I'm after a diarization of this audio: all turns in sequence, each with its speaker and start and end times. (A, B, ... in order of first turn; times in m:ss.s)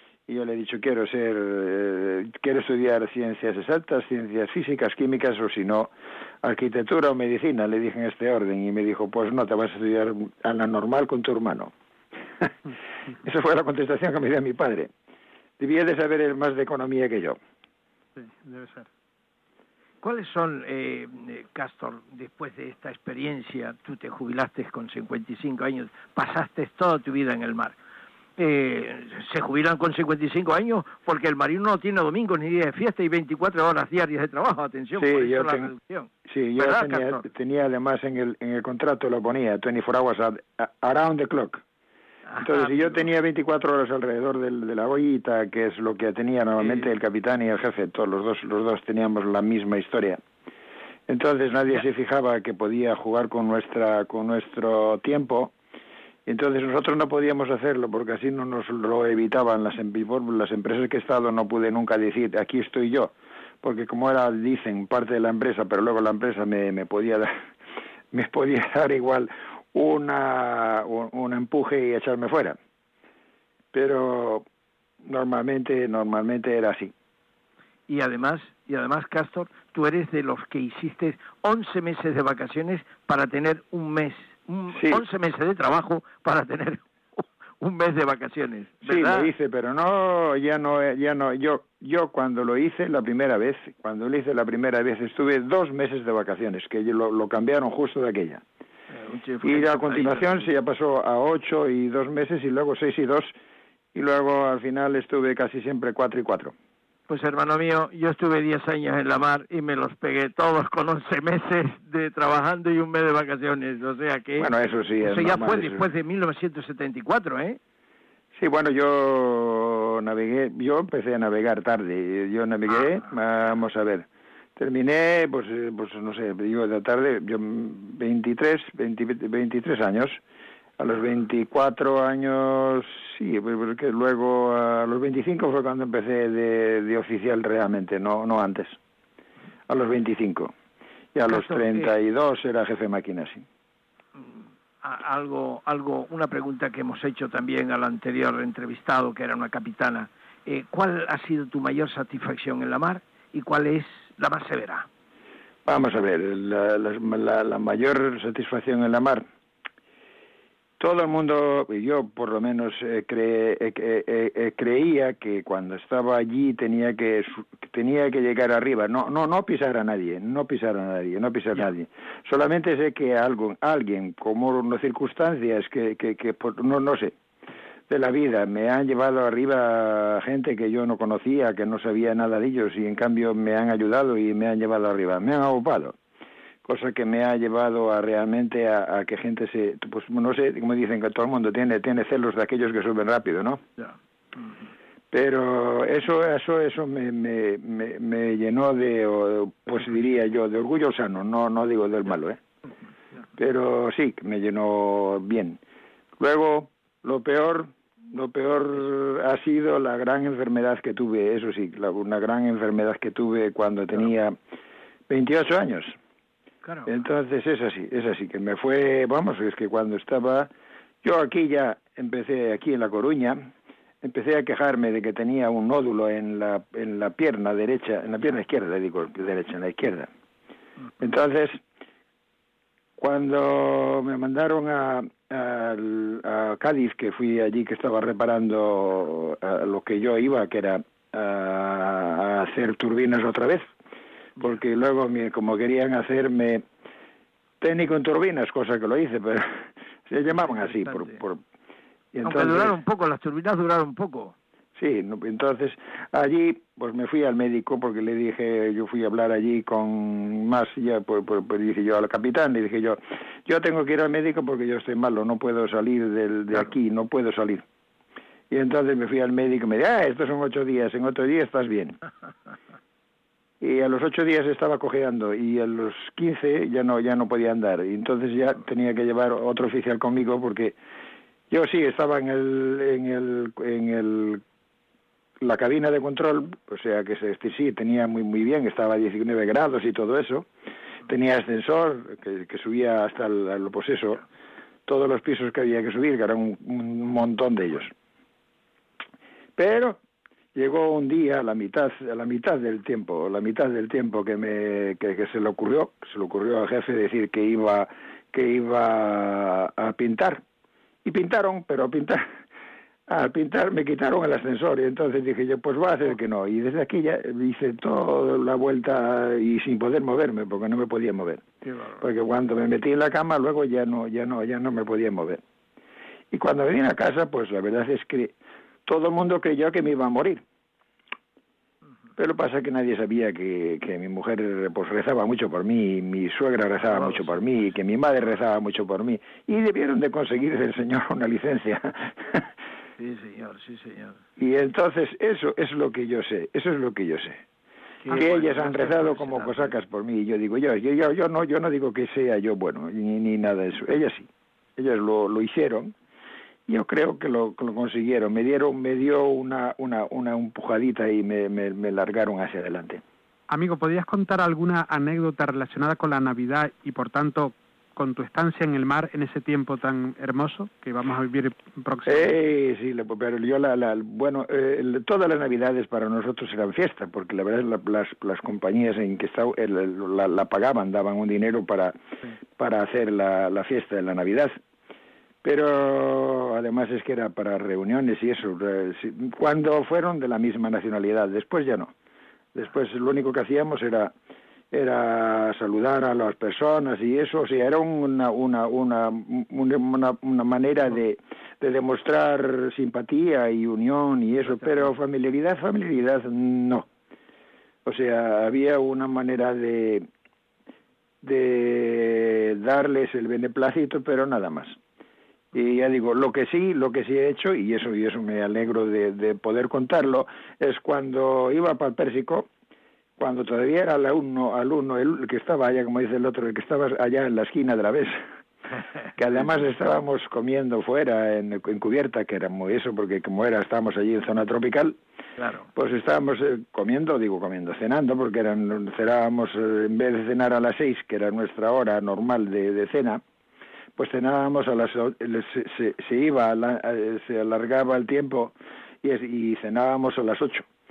0:00.3-0:05.9 A
0:06.4-0:11.7 A
0:13.2-0:14.9 A
0:15.6-0:17.4 A
0:18.2-0:18.9 B
0:20.0-0:27.8 C
0:28.4-0:37.2 C
0:35.0-0:35.7 A
0:36.3-0:41.6 A
0:42.3-0:43.0 C
0:42.4-0:50.2 A
0:46.6-0:46.9 C
0:51.1-0:55.5 A
0:56.2-1:07.4 A
1:08.1-1:12.6 A
1:13.7-1:14.4 A
1:15.0-1:16.9 A
1:17.9-1:29.3 C
1:24.7-1:25.0 A
1:28.8-1:38.4 A
1:38.9-1:40.5 C
1:39.4-1:43.3 A
1:43.9-1:46.5 A
1:47.1-1:54.5 C
1:54.4-1:55.9 A
1:55.0-1:57.6 C
1:58.3-2:10.2 A
2:10.8-2:18.8 A
2:19.7-2:20.5 A
2:21.1-2:23.4 A
2:21.3-2:21.9 C
2:24.2-2:34.9 C
2:35.6-2:39.2 A
2:40.8-2:57.1 A
2:57.9-3:05.9 A
3:06.6-3:13.6 A
3:13.8-3:14.7 C
3:15.1-3:22.4 A
3:23.4-3:25.6 A
3:26.2-3:34.4 A
3:35.1-3:35.9 A
3:36.6-3:36.9 C
3:36.8-3:40.5 A
3:41.0-3:43.5 A
3:44.0-3:50.1 A
3:51.0-3:51.6 A
3:53.0-4:03.7 A
4:04.4-4:06.6 A
4:07.6-4:11.4 A
4:10.3-4:11.2 C
4:12.1-4:12.8 A
4:12.2-4:14.3 C
4:14.8-4:27.6 A
4:28.5-4:32.0 A
4:33.6-4:40.8 A
4:41.5-4:44.4 A
4:45.4-4:50.5 A
4:51.0-4:54.2 A
4:54.9-4:57.9 A
4:59.6-5:00.0 A
5:00.5-5:10.4 A
5:11.0-5:12.3 A
5:13.1-5:21.4 A
5:21.6-5:22.0 C
5:22.0-5:25.4 A
5:26.3-5:28.3 A
5:28.8-5:30.4 A
5:32.2-5:42.5 A
5:36.8-5:37.4 C
5:43.0-5:44.2 C
5:44.4-5:47.4 A
5:48.0-5:49.8 C
5:48.0-5:55.9 A
5:56.7-6:03.0 A
6:03.5-6:12.4 B
6:12.0-6:22.0 A
6:22.5-6:24.6 A
6:25.4-6:31.9 A
6:32.5-6:34.1 A
6:34.7-6:46.9 A
6:47.8-6:50.1 A
6:51.2-6:54.8 A
6:55.5-7:02.5 A
7:03.2-7:08.2 A
7:09.2-7:15.0 A
7:15.4-7:15.7 C
7:15.8-7:23.2 A
7:24.0-7:30.6 A